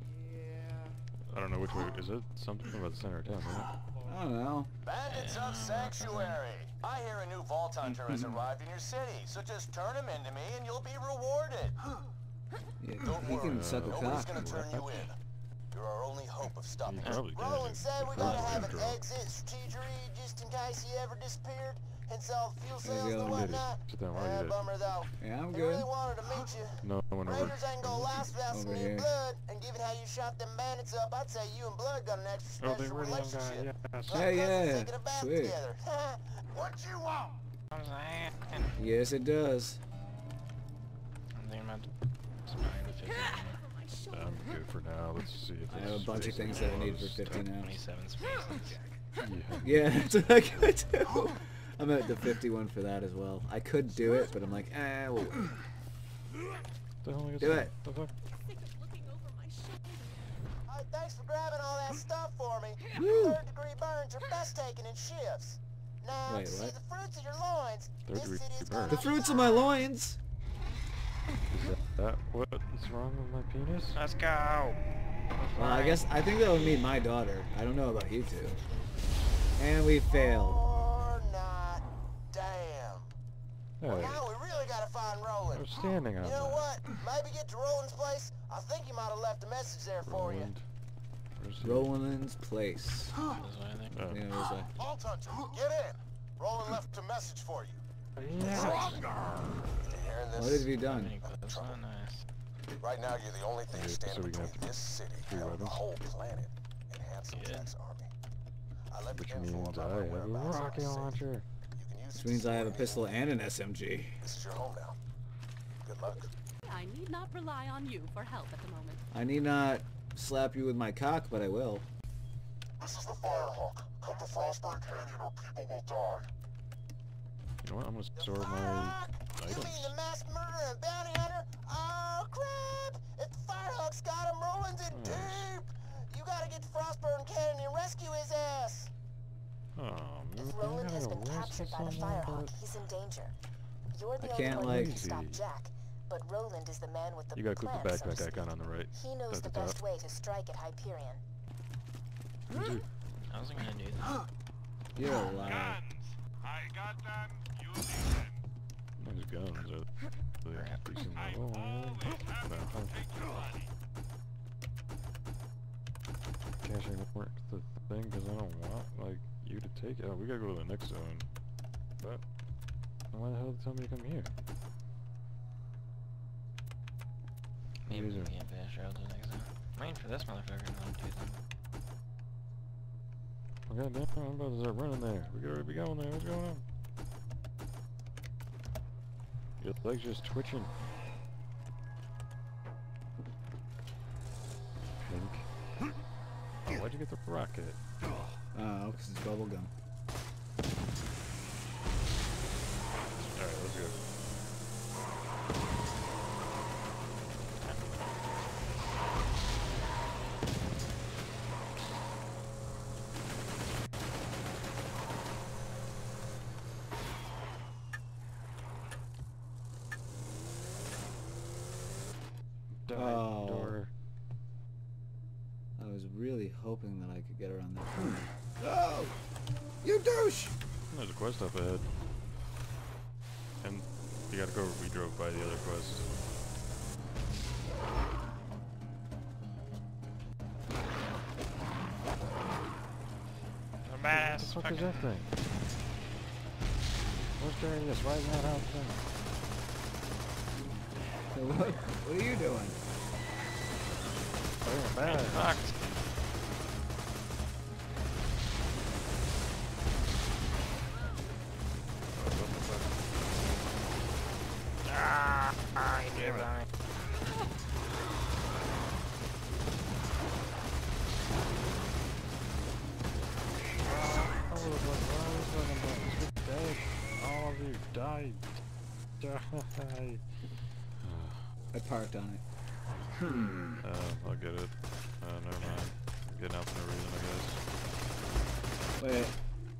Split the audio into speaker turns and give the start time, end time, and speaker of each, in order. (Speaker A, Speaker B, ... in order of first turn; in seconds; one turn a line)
Speaker A: 0.3-0.7
Speaker B: 1.3-3.7
Speaker C: 4.0-4.7
Speaker A: 4.8-11.8
Speaker D: 5.0-6.4
Speaker C: 7.9-8.3
Speaker C: 12.8-14.5
Speaker A: 13.0-15.2
Speaker B: 13.4-15.1
Speaker A: 15.7-37.3
Speaker B: 16.8-19.0
Speaker C: 22.8-23.6
Speaker B: 23.2-24.6
Speaker C: 25.2-25.9
Speaker B: 26.8-28.2
Speaker C: 28.5-29.1
Speaker B: 32.6-34.3
Speaker C: 34.1-35.6
Speaker D: 37.7-38.8
Speaker C: 38.8-39.8
Speaker D: 41.3-41.9
Speaker D: 42.5-43.6
Speaker E: 42.8-44.7
Speaker B: 44.1-47.5
Speaker C: 45.7-47.8
Speaker D: 46.6-48.8
Speaker B: 49.2-50.2
Speaker C: 49.6-55.5
Speaker B: 57.0-58.1
Speaker C: 57.4-57.7
Speaker E: 58.3-60.4
Speaker A: 60.7-69.5
Speaker C: 62.9-63.4
Speaker C: 66.3-66.7
Speaker B: 68.1-69.1
Speaker C: 68.9-70.2
Speaker B: 71.5-74.0
Speaker D: 74.0-74.8
Speaker C: 75.5-78.6
Speaker D: 75.6-76.0
Speaker C: 79.6-80.6
Speaker A: 80.1-83.1
Speaker B: 83.8-84.3
Speaker A: 83.8-85.7
Speaker B: 85.5-86.7
Speaker A: 86.2-90.5
Speaker B: 90.0-90.6
Speaker B: 91.4-91.9
Speaker C: 91.6-93.1
Speaker D: 93.4-94.1
Speaker B: 93.9-94.2
Speaker C: 94.1-94.7
Speaker A: 94.8-97.8
Speaker B: 98.2-99.3
Speaker A: 98.4-99.1
Speaker A: 99.7-101.8
Speaker C: 100.3-101.1
Speaker D: 100.7-102.2
Speaker A: 102.8-108.1
Speaker B: 103.7-105.8
Speaker D: 107.3-107.7
Speaker A: 108.9-111.2
Speaker B: 109.1-111.5
Speaker A: 111.8-113.2
Speaker C: 112.1-114.2
Speaker A: 114.2-115.0
Speaker A: 115.8-116.3
Speaker E: 116.6-119.0
Speaker C: 119.1-121.9
Speaker A: 122.8-126.2
Speaker B: 127.6-129.9
Speaker A: 128.1-138.9
Speaker B: 134.9-135.5
Speaker B: 139.8-142.5
Speaker F: 140.4-143.3
Speaker F: 143.9-151.2
Speaker C: 144.2-145.0
Speaker B: 144.4-145.4
Speaker B: 147.3-149.8
Speaker B: 152.5-152.9
Speaker D: 153.2-154.2
Speaker C: 154.9-155.8
Speaker G: 155.1-158.4
Speaker B: 159.0-163.0
Speaker D: 160.5-160.8
Speaker G: 161.1-163.7
Speaker B: 166.6-171.3
Speaker B: 173.1-174.3
Speaker D: 177.8-181.4
Speaker B: 177.9-178.3
Speaker B: 183.7-186.6
Speaker B: 189.6-190.7
Speaker B: 195.0-195.5
Speaker B: 196.6-197.8
Speaker C: 198.6-199.7
Speaker B: 203.3-203.9
Speaker B: 222.8-223.9
Speaker C: 222.9-223.8
Speaker C: 225.8-229.1
Speaker C: 229.8-230.5
Speaker B: 230.9-231.9
Speaker B: 233.6-236.1
Speaker D: 243.8-245.1
Speaker B: 244.1-245.3
Speaker B: 247.4-249.1
Speaker C: 251.3-252.8
Speaker B: 254.6-255.6
Speaker D: 255.0-255.8
Speaker B: 262.1-263.0
Speaker D: 264.8-266.6
Speaker B: 266.1-266.5
Speaker B: 273.8-278.5
Speaker B: 279.2-280.2
Speaker B: 281.0-281.4
Speaker C: 281.7-282.4
Speaker B: 283.8-287.6
Speaker C: 289.0-289.3